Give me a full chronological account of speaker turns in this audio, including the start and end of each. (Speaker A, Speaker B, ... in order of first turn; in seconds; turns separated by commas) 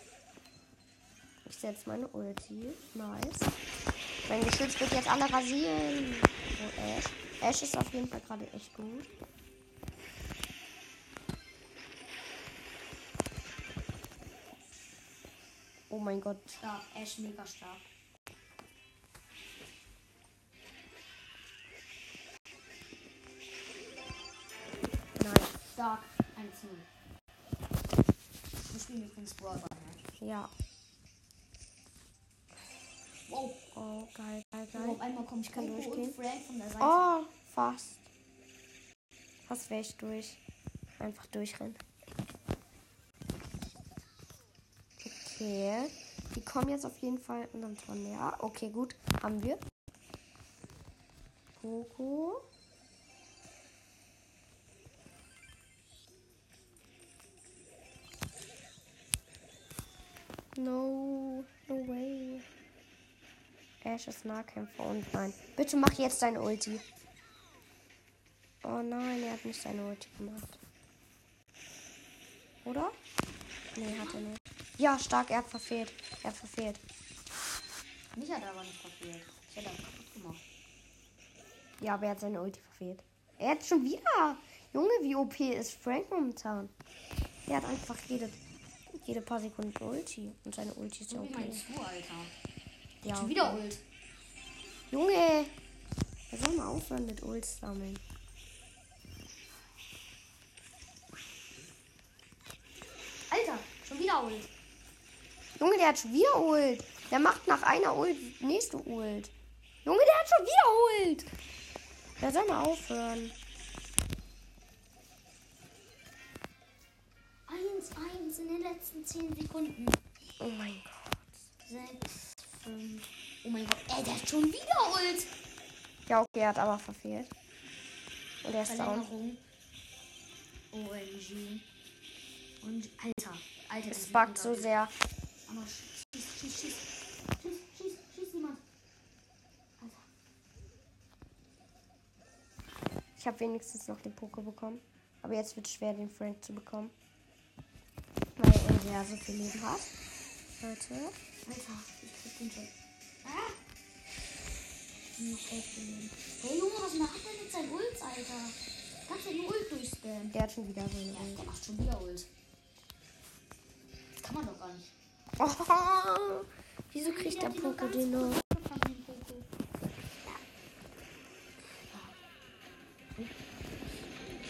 Speaker A: 1.4-3.5, Speaker A: 4.2-9.1, Speaker A: 15.9-16.6, Speaker B: 16.6-17.9, Speaker A: 25.2-25.6, Speaker B: 25.7-26.9, Speaker B: 28.7-30.0, Speaker A: 30.2-30.5, Speaker B: 33.3-33.6, Speaker A: 33.7-36.2, Speaker B: 34.7-37.1, Speaker A: 36.8-38.1, Speaker A: 39.5-40.4, Speaker A: 41.0-41.8, Speaker A: 45.0-49.6, Speaker A: 51.6-52.4, Speaker A: 60.5-62.5, Speaker A: 63.8-66.8, Speaker A: 68.6-70.6, Speaker A: 72.6-72.9, Speaker A: 73.7-76.8, Speaker B: 78.1-80.4, Speaker A: 81.8-86.7, Speaker A: 87.5-91.7, Speaker B: 91.1-92.3, Speaker A: 93.0-93.6, Speaker B: 93.1-93.8, Speaker A: 94.9-95.5, Speaker A: 96.3-98.0, Speaker B: 103.3-104.5, Speaker A: 105.6-109.3, Speaker A: 109.8-111.3, Speaker A: 112.2-113.3, Speaker B: 117.5-120.0, Speaker A: 120.4-121.4, Speaker B: 121.6-125.3, Speaker A: 126.1-127.3, Speaker A: 128.4-129.1, Speaker B: 128.7-129.4, Speaker B: 130.7-131.6, Speaker B: 132.6-134.7, Speaker A: 133.9-134.9, Speaker B: 135.4-136.9, Speaker B: 137.4-138.6, Speaker B: 139.8-140.0, Speaker A: 143.2-146.9, Speaker A: 148.4-150.0, Speaker A: 150.6-151.2, Speaker B: 151.4-153.6, Speaker B: 155.2-160.3, Speaker A: 160.3-161.4, Speaker B: 161.1-162.3, Speaker B: 164.2-164.9, Speaker A: 165.4-168.4, Speaker B: 167.0-169.5, Speaker B: 171.9-172.2